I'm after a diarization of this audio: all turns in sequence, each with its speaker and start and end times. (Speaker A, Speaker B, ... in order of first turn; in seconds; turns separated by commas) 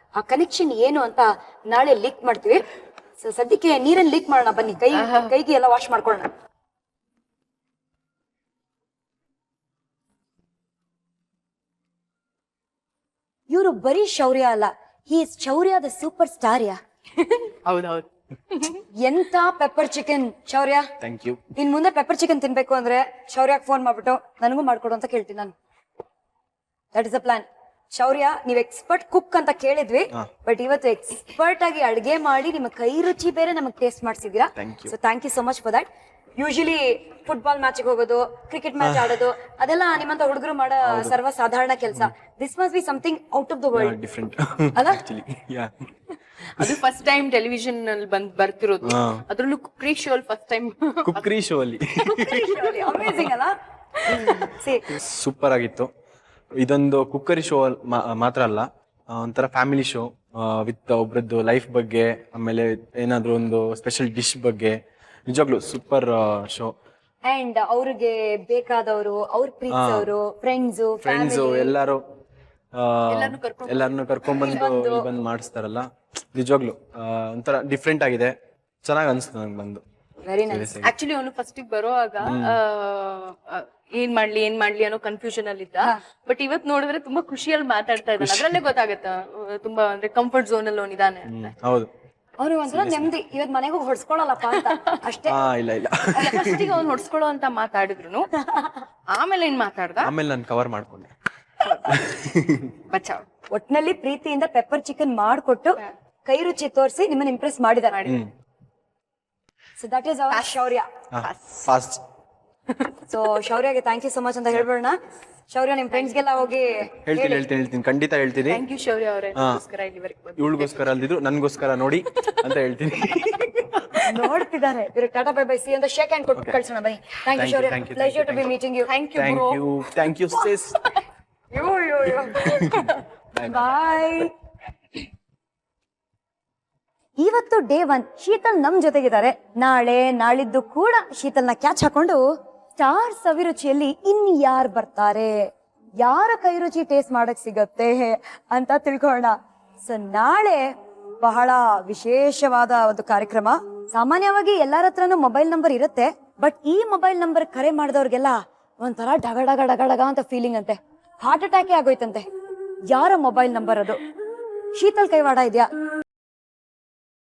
Speaker A: 0.1-2.6, Speaker A: 3.2-6.3, Speaker B: 5.0-5.3, Speaker A: 13.5-16.8, Speaker B: 17.2-18.8, Speaker A: 19.0-20.9, Speaker C: 21.0-21.4, Speaker A: 21.5-25.5, Speaker A: 26.9-44.0, Speaker C: 34.6-34.9, Speaker C: 38.8-39.1, Speaker C: 40.8-41.1, Speaker C: 43.7-45.7, Speaker A: 44.7-45.0, Speaker B: 46.5-51.3, Speaker C: 48.8-49.2, Speaker C: 51.0-52.5, Speaker B: 52.0-53.2, Speaker A: 52.2-53.5, Speaker B: 54.0-54.5, Speaker A: 54.0-54.9, Speaker C: 55.0-55.9, Speaker C: 56.6-66.7, Speaker A: 67.2-71.7, Speaker C: 69.7-70.1, Speaker C: 71.0-72.0, Speaker C: 72.7-79.8, Speaker B: 73.1-74.7, Speaker A: 74.3-75.0, Speaker A: 80.2-80.7, Speaker C: 80.5-80.9, Speaker B: 80.8-91.5, Speaker C: 82.2-82.6, Speaker C: 88.2-88.6, Speaker C: 91.3-91.9, Speaker A: 92.4-95.4, Speaker C: 92.7-93.1, Speaker C: 95.3-96.7, Speaker B: 96.1-98.3, Speaker B: 99.1-100.1, Speaker C: 100.0-101.1, Speaker B: 101.6-102.0, Speaker C: 101.9-102.7, Speaker B: 102.9-103.2, Speaker A: 103.5-108.0, Speaker B: 107.9-108.2, Speaker C: 108.0-108.3, Speaker A: 109.8-110.9, Speaker C: 111.1-112.0, Speaker B: 111.2-111.7, Speaker A: 113.1-115.0, Speaker A: 115.5-117.4, Speaker B: 115.9-116.2, Speaker C: 117.0-118.6, Speaker B: 118.5-120.7, Speaker C: 119.3-119.6, Speaker C: 120.4-124.0, Speaker A: 124.0-128.9, Speaker C: 127.3-128.5, Speaker B: 128.9-129.6, Speaker C: 129.2-130.8, Speaker A: 131.5-132.5, Speaker C: 132.4-132.8, Speaker B: 132.5-132.9, Speaker C: 133.3-133.9, Speaker A: 133.4-134.3, Speaker A: 137.2-142.2, Speaker A: 142.8-145.5, Speaker A: 146.0-150.7, Speaker A: 151.2-162.3, Speaker A: 162.9-164.0, Speaker A: 164.7-165.7